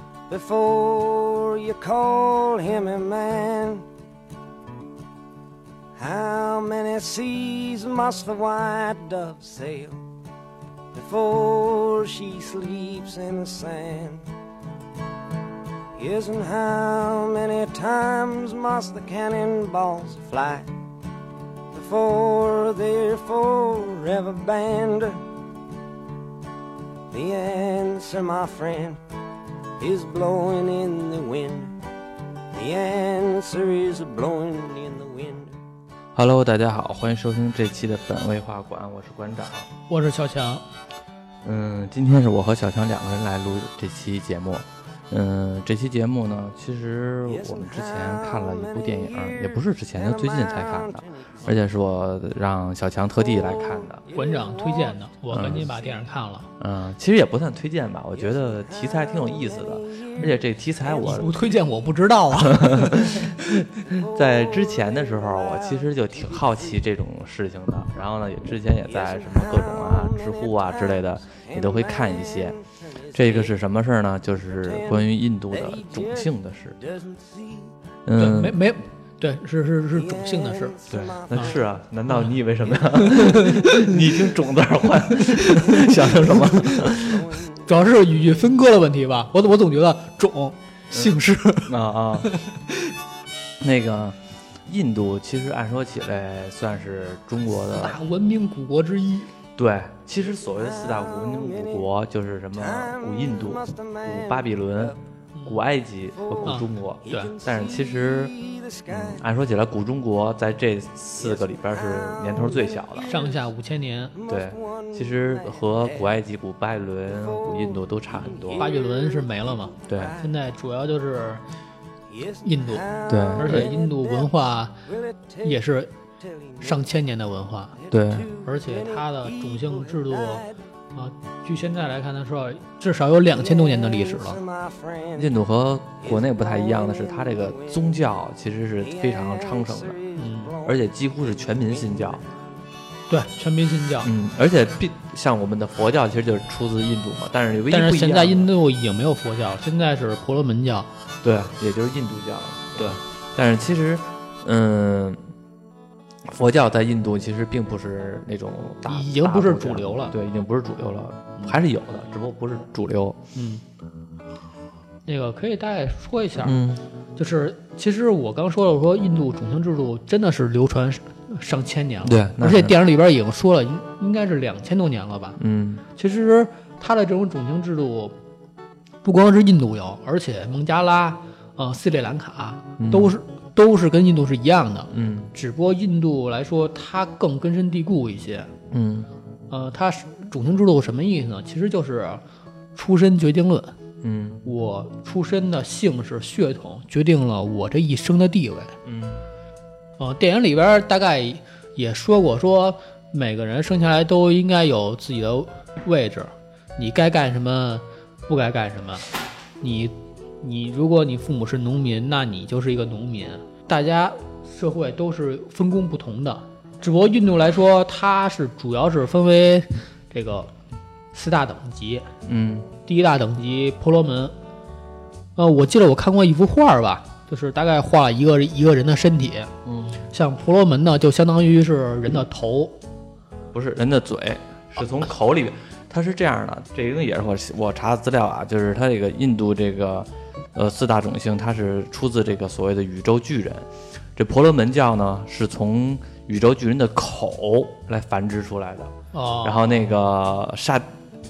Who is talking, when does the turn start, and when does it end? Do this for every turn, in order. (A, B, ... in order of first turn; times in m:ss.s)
0:00.3-0:03.9 A
0:06.0-0:10.0 A
0:10.9-0:14.2 A
0:16.0-0:20.7 A
0:21.7-0:25.2 A
0:27.1-0:29.0 A
0:29.8-0:31.8 A
0:32.5-0:35.5 A
0:36.2-0:39.7 B
0:39.9-0:40.6 C
0:41.4-0:54.0 B
0:47.3-0:51.3 A
0:53.4-0:55.0 A
0:54.1-0:56.5 C
0:55.3-0:55.7 B
0:55.6-0:55.9 A
0:56.6-1:01.4 B
0:58.5-1:01.2 A
1:01.0-1:03.8 C
1:02.3-1:12.6 B
1:04.0-1:06.8 A
1:08.9-1:13.5 A
1:13.1-1:16.8 B
1:14.6-1:17.7 A
1:18.0-1:18.6 B
1:18.2-1:20.8 C
1:20.0-1:21.6 A
1:20.9-1:27.3 B
1:22.9-1:23.9 C
1:25.1-1:26.9 C
1:27.0-1:27.5 A
1:27.7-1:31.7 C
1:31.7-1:32.3 B
1:32.2-1:32.7 C
1:33.6-1:38.0 B
1:37.7-1:39.3 C
1:39.6-1:48.3 B
1:40.4-1:41.8 A
1:42.5-1:45.0 A
1:46.2-1:49.2 A
1:46.4-1:47.3 C
1:48.9-1:53.2 B
1:51.2-1:53.4 A
1:53.0-1:54.2 C
1:54.2-1:56.1 A
1:54.3-1:58.7 B
1:57.2-2:00.3 A
1:58.6-2:01.4 C
1:59.9-2:00.2 B
2:02.1-2:04.3 A
2:02.4-2:04.8 C
2:03.1-2:03.7 B
2:04.9-2:05.6 A
2:05.4-2:05.9 C
2:06.2-2:06.8 A
2:06.6-2:07.8 C
2:07.8-2:10.5 A
2:07.9-2:08.3 B
2:08.4-2:14.4 C
2:13.4-2:15.3 A
2:15.2-2:20.0 B
2:16.0-2:17.8 A
2:18.8-2:22.3 A
2:20.2-2:20.6 C
2:20.6-2:22.2 B
2:23.1-2:24.1 C
2:24.0-2:28.5 B
2:27.7-2:30.9 C
2:31.2-2:35.2 B
2:36.2-2:43.2 B
2:38.9-2:40.1 C
2:43.4-2:43.6 C
2:45.1-2:46.6 C
2:46.4-2:46.8 B
2:47.2-2:55.4 C
2:52.0-2:52.7 B
2:55.4-2:55.8 B
2:56.0-2:58.2 C
2:59.0-3:08.5 C
3:02.8-3:03.2 B
3:04.9-3:05.3 B
3:08.7-3:09.1 B
3:09.5-3:12.2 C
3:12.8-3:13.7 C
3:14.0-3:14.4 B
3:14.4-3:18.8 C
3:18.8-3:19.2 B
3:20.0-3:29.1 C
3:29.6-3:40.5 C
3:41.1-3:42.1 C
3:42.3-3:42.7 B
3:42.8-3:44.3 C
3:45.4-3:49.5 C
3:49.7-3:50.0 B
3:50.1-3:52.7 C
3:53.5-4:10.9 B
4:09.1-4:09.6 C